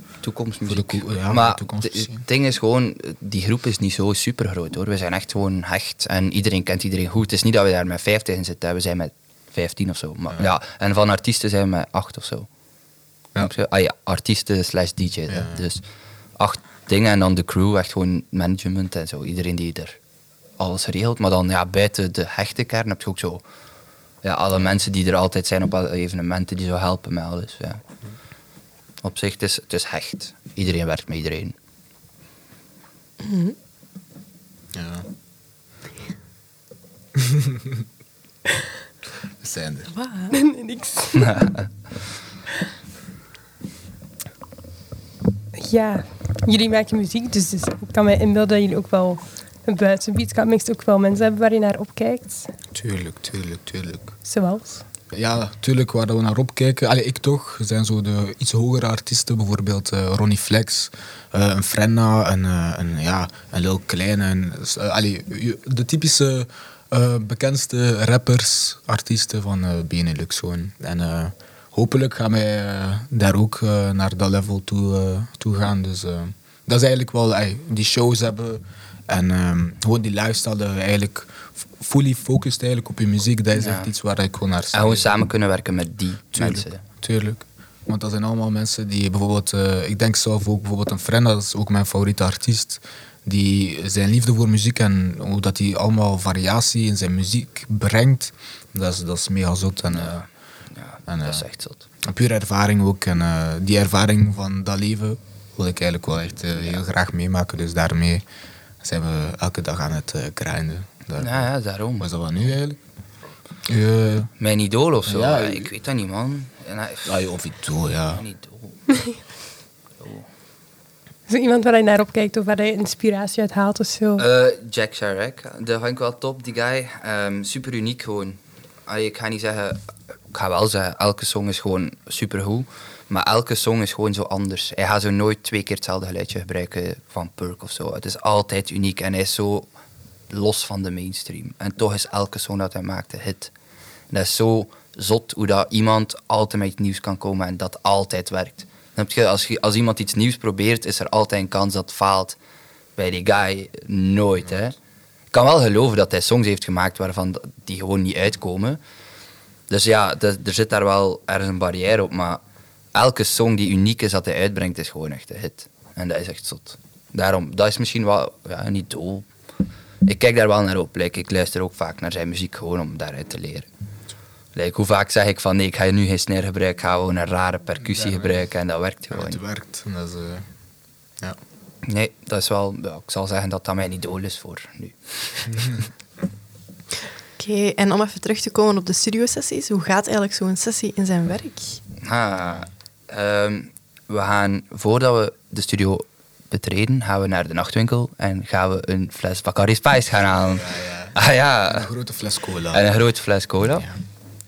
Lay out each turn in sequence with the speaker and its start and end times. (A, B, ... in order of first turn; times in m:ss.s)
0:00.2-0:12.5 A
0:00.7-0:02.2 B
0:13.4-0:15.8 A
0:15.3-0:15.6 B
0:16.4-0:20.0 A
0:20.6-0:23.4 A
0:24.2-0:27.8 A
0:29.0-0:31.6 A
0:33.2-0:33.6 C
0:34.7-0:35.1 B
0:37.2-0:37.8 B
0:39.4-0:39.9 B
0:39.9-0:40.4 C
0:40.3-0:41.5 D
0:41.2-0:41.7 A
0:45.6-0:52.5 D
0:52.7-0:54.1 B
0:54.2-0:54.8 D
0:55.1-1:25.1 B
1:23.6-1:23.9 A
1:24.7-1:26.8 A
1:26.3-1:40.3 B
1:39.9-1:41.9 A
1:41.1-1:41.4 B
1:42.0-1:48.2 B
1:48.8-1:52.8 B
1:51.2-1:52.1 A
1:53.7-1:54.3 B
1:54.4-1:57.2 A
1:55.1-1:55.7 B
1:57.0-1:58.2 B
1:58.1-1:58.8 A
2:00.0-2:00.3 A
2:01.3-2:04.3 D
2:04.2-2:19.7 A
2:20.3-2:23.5 A
2:24.1-2:32.4 A
2:33.0-2:34.8 A
2:35.3-2:38.8 A
2:39.7-2:42.4 A
2:42.9-2:49.3 A
2:50.0-2:53.7 A
2:54.5-2:59.4 A
2:57.8-2:58.5 B
2:59.1-3:00.4 B
3:01.8-3:05.5 A
3:05.5-3:05.9 B
3:07.4-3:11.8 C
3:12.0-3:21.9 A
3:20.4-3:22.8 B
3:22.7-3:23.9 A